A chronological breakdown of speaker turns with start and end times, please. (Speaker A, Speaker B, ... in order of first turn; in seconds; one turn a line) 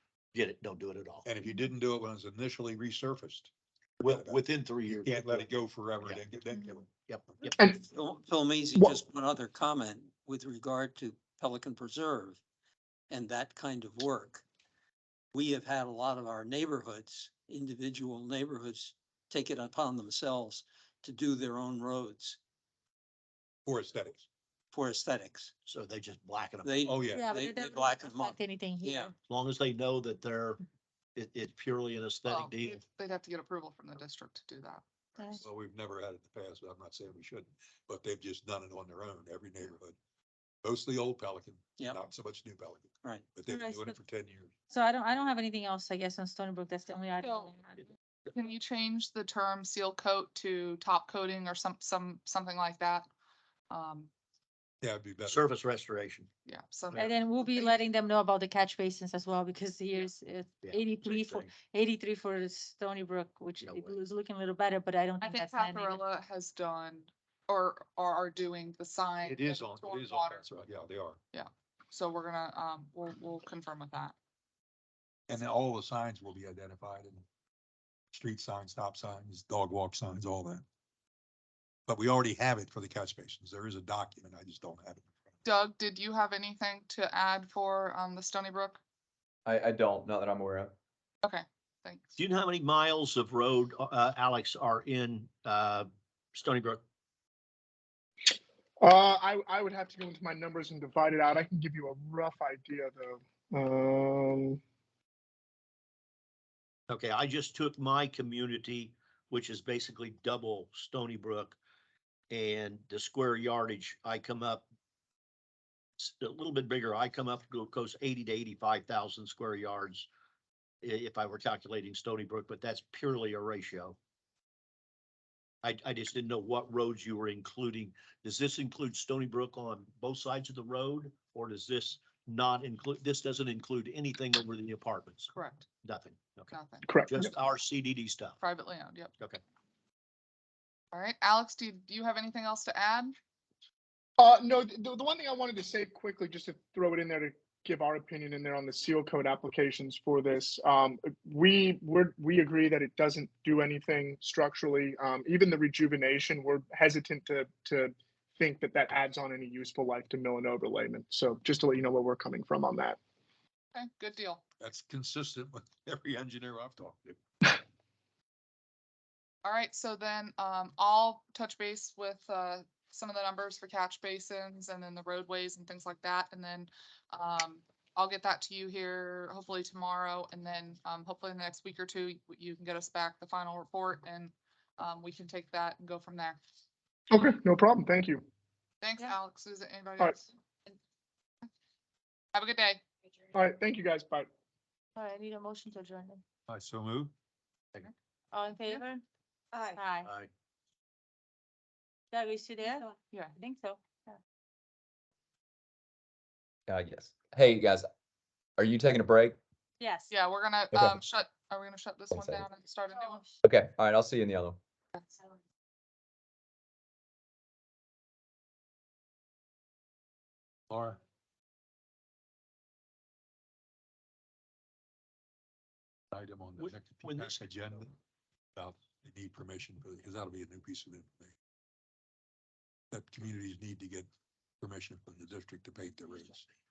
Speaker A: 0.3-1.3
Speaker B: 1.2-3.5
Speaker A: 4.0-5.5
Speaker B: 4.1-4.4
Speaker B: 5.0-6.9
Speaker A: 7.1-7.6
Speaker C: 7.8-12.4
Speaker C: 13.1-14.4
Speaker C: 15.3-22.4
Speaker B: 23.7-24.3
Speaker C: 24.7-25.5
Speaker A: 25.7-26.7
Speaker C: 26.6-29.1
Speaker B: 26.9-27.3
Speaker D: 27.0-29.1
Speaker A: 29.3-30.6
Speaker A: 31.2-32.8
Speaker E: 32.3-34.8
Speaker D: 35.2-35.4
Speaker B: 35.4-40.0
Speaker B: 40.6-44.5
Speaker C: 43.0-43.3
Speaker D: 43.4-44.0
Speaker D: 44.7-47.9
Speaker E: 48.3-53.1
Speaker E: 53.7-54.1
Speaker B: 54.8-55.4
Speaker A: 55.2-56.3
Speaker E: 56.5-57.8
Speaker D: 57.0-66.0
Speaker A: 60.6-61.5
Speaker A: 63.6-64.0
Speaker E: 65.2-70.5
Speaker B: 69.2-71.2
Speaker E: 71.3-74.2
Speaker B: 75.3-77.2
Speaker B: 78.1-80.7
Speaker B: 81.9-85.1
Speaker E: 85.5-88.8
Speaker F: 89.5-90.7
Speaker E: 91.2-92.2
Speaker A: 92.2-96.8
Speaker G: 98.8-104.6
Speaker A: 106.9-111.6
Speaker A: 112.3-114.7
Speaker A: 116.0-120.1
Speaker A: 120.8-124.0
Speaker A: 125.6-135.3
Speaker E: 135.3-135.7
Speaker A: 135.8-136.5
Speaker E: 136.5-136.9
Speaker G: 136.9-137.3
Speaker A: 137.1-138.4
Speaker E: 138.4-139.1
Speaker E: 140.9-143.2
Speaker G: 144.2-163.0
Speaker E: 163.7-164.4
Speaker B: 164.6-167.2
Speaker E: 169.4-186.4
Speaker G: 187.1-188.2
Speaker E: 188.8-190.8
Speaker E: 192.3-192.8
Speaker G: 193.3-194.3
Speaker D: 195.0-196.2
Speaker B: 196.5-197.1
Speaker D: 198.3-199.0
Speaker D: 199.5-200.1
Speaker A: 200.0-200.3
Speaker D: 202.1-204.2
Speaker F: 206.7-207.9
Speaker F: 208.6-209.4
Speaker D: 209.8-210.1
Speaker E: 210.1-213.2
Speaker F: 210.7-211.0
Speaker F: 212.1-212.4
Speaker D: 212.9-213.4
Speaker F: 213.4-214.6
Speaker B: 220.7-221.0
Speaker B: 226.1-227.9
Speaker A: 226.6-227.4
Speaker B: 228.6-231.3
Speaker B: 232.9-234.1
Speaker B: 234.6-236.5